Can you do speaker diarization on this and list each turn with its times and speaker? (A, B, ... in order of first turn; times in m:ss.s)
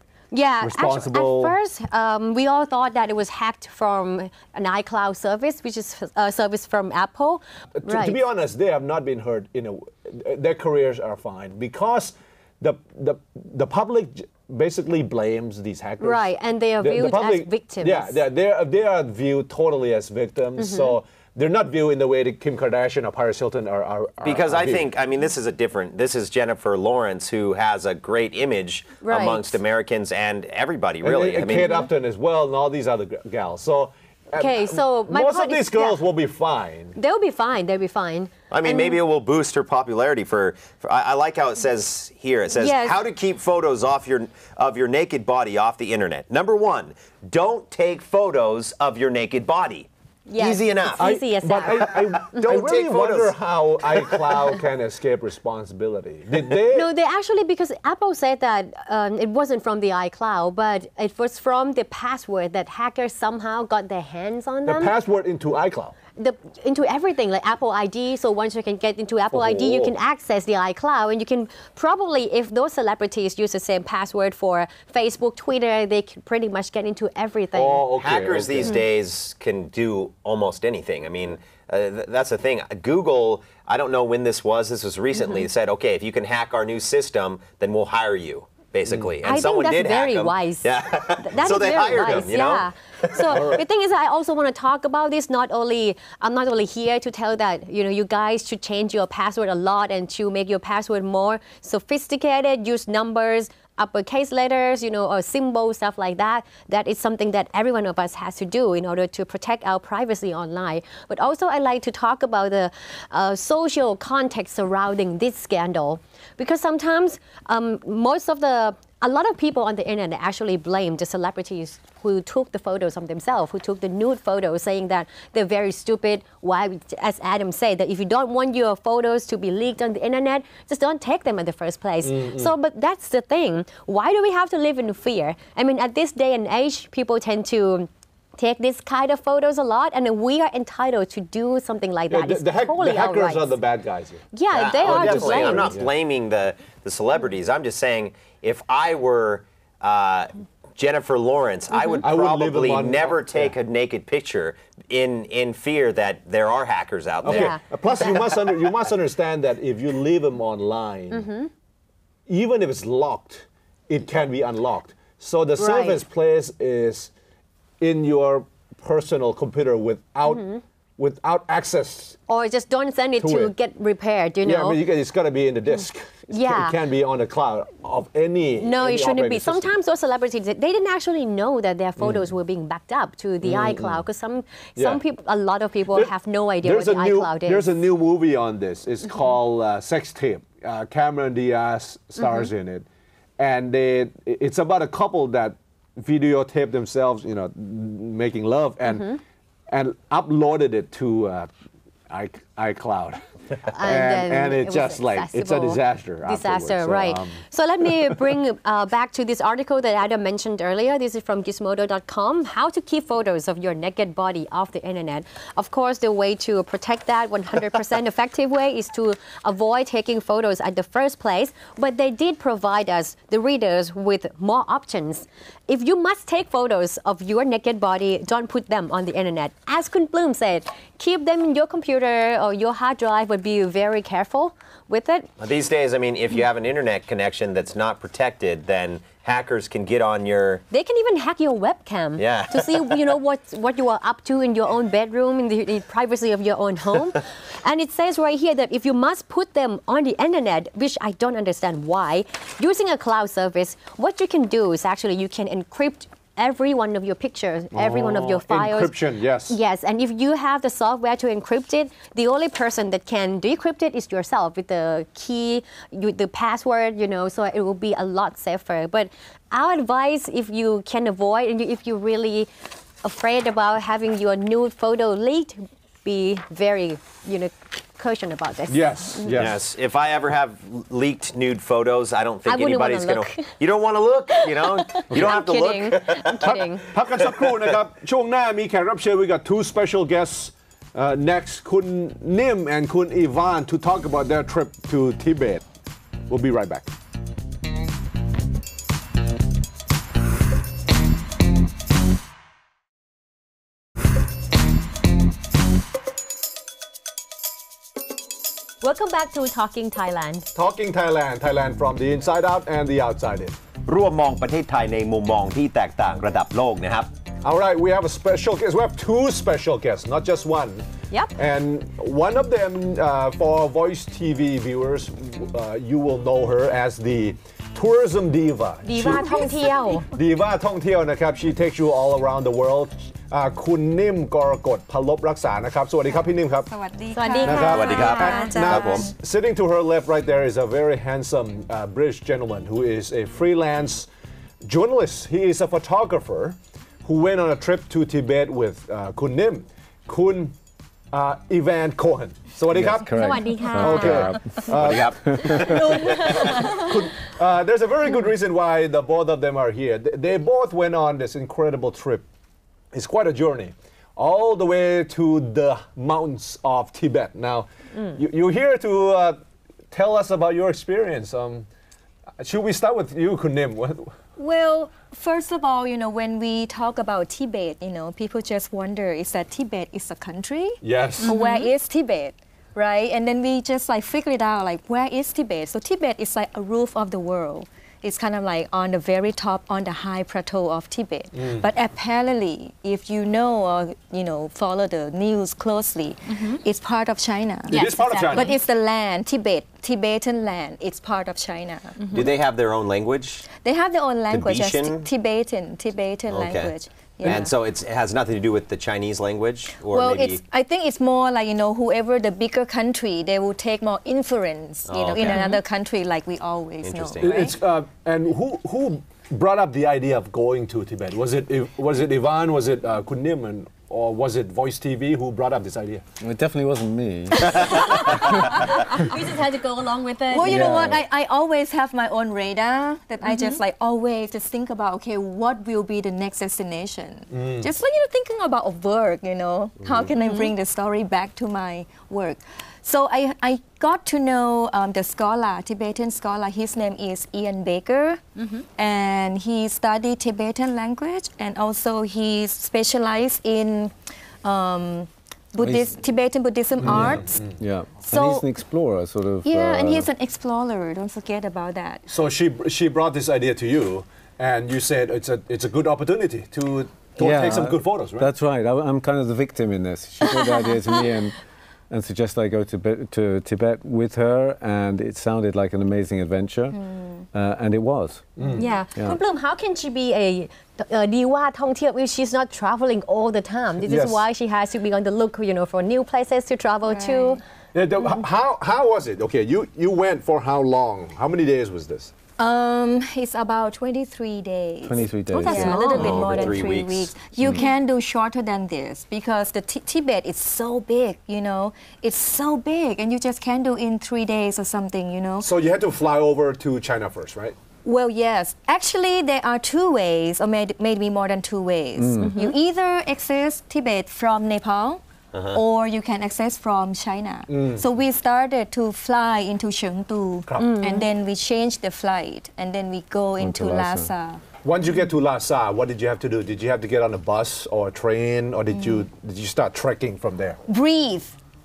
0:00.3-0:08.2 A
0:00.6-0:01.6 B
0:07.8-0:24.9 B
0:16.0-0:18.2 A
0:20.6-0:21.0 A
0:24.2-0:31.8 C
0:29.0-0:29.5 A
0:31.0-0:37.0 B
0:34.4-0:36.0 A
0:37.0-0:39.0 A
0:38.5-0:51.1 C
0:42.6-0:43.0 A
0:50.3-0:52.5 A
0:51.0-0:56.9 B
0:51.7-0:54.5 C
0:56.7-1:04.9 A
1:04.6-1:05.9 B
1:06.2-1:17.9 A
1:09.3-1:09.9 B
1:17.5-1:18.8 B
1:18.0-1:33.5 C
1:25.1-1:25.4 A
1:29.2-1:30.7 A
1:31.2-2:23.5 A
1:33.3-1:33.6 B
2:12.0-2:12.5 B
2:22.1-2:24.2 B
2:24.3-2:25.8 A
2:24.5-2:38.2 C
2:24.8-2:25.9 B
2:31.7-2:32.0 A
2:32.0-2:33.5 B
2:37.2-2:41.3 B
2:37.2-2:37.6 A
2:41.1-2:41.5 A
2:42.3-2:47.1 B
2:45.6-2:46.0 A
2:47.8-2:50.4 B
2:50.2-2:50.6 A
2:51.0-2:52.2 B
2:52.3-2:54.8 A
2:53.2-2:53.5 B
2:54.4-2:59.7 B
2:56.3-2:56.8 A
2:58.6-3:07.8 A
3:02.0-3:02.2 B
3:03.4-3:04.0 B
3:04.8-3:05.0 B
3:06.6-3:12.8 B
3:12.2-3:12.5 A
3:13.4-3:19.2 B
3:18.8-3:19.2 A
3:19.7-3:21.5 B
3:22.1-3:27.4 B
3:23.7-3:55.3 A
3:55.4-4:00.6 C
4:00.7-4:32.5 A
4:02.2-4:02.9 C
4:17.7-4:19.6 B
4:33.0-4:39.4 A
4:38.7-4:39.6 B
4:39.3-4:46.6 C
4:42.4-4:43.5 A
4:44.3-4:46.9 A
4:45.1-4:45.4 B
4:46.4-4:55.6 B
4:56.3-4:56.9 B
5:08.8-5:10.5 A
5:10.5-5:13.6 B
5:13.8-5:17.1 C
5:17.4-5:20.8 B
5:21.4-5:29.6 B
5:28.8-5:30.1 A
5:29.0-5:30.0 D
5:30.1-5:36.7 B
5:36.7-5:39.1 D
5:37.1-5:38.8 A
5:37.4-5:44.1 B
5:37.5-5:39.1 C
5:44.6-5:50.5 B
5:51.1-6:02.2 B
5:52.7-5:56.0 E
5:53.0-5:54.7 A
5:54.7-5:56.6 C
5:56.0-5:56.9 D
6:02.9-6:09.4 B
6:09.9-6:11.7 B
6:12.4-6:14.2 B
6:14.4-6:42.3 D
6:20.8-6:21.3 B
6:21.2-6:21.7 A
6:31.4-6:31.6 B
6:37.7-6:38.5 B
6:42.1-6:43.5 C
6:43.5-6:47.5 D
6:44.3-6:45.0 C
6:46.3-6:50.4 C
6:49.9-6:57.6 D
6:54.9-6:55.5 C
6:55.2-6:55.6 A
6:56.8-6:57.3 C
6:57.2-7:06.0 B
7:06.2-7:09.0 E
7:07.3-7:09.0 D
7:07.7-7:10.6 A
7:10.3-7:28.2 D
7:10.5-7:11.0 E
7:10.5-7:10.9 B
7:13.2-7:13.6 A
7:17.3-7:17.7 B
7:20.2-7:20.5 A
7:28.4-7:28.6 A
7:28.8-7:37.4 D
7:35.6-7:35.9 E
7:36.8-7:37.6 B
7:36.9-7:40.1 E
7:38.0-7:38.5 D
7:39.4-7:42.0 D
7:42.1-7:48.3 B
7:47.2-7:51.4 E
7:50.4-7:51.0 D
7:51.9-7:56.8 E
7:56.7-7:57.3 D
7:57.3-7:58.4 E
7:58.4-7:58.6 B
7:58.5-8:07.4 A
7:58.9-7:59.2 E
8:03.8-8:04.2 B
8:06.9-8:07.4 D
8:07.7-8:12.1 B
8:12.4-8:25.5 D
8:14.8-8:16.4 E
8:15.4-8:15.9 A
8:15.6-8:17.1 C
8:25.4-8:27.6 B
8:27.8-8:44.4 D
8:32.0-8:32.4 E
8:32.2-8:32.5 A
8:35.3-8:35.6 C
8:37.5-8:37.8 B
8:40.5-8:40.8 B
8:40.6-8:41.1 A
8:43.4-8:44.1 E
8:44.6-8:50.6 B
8:50.7-8:51.4 D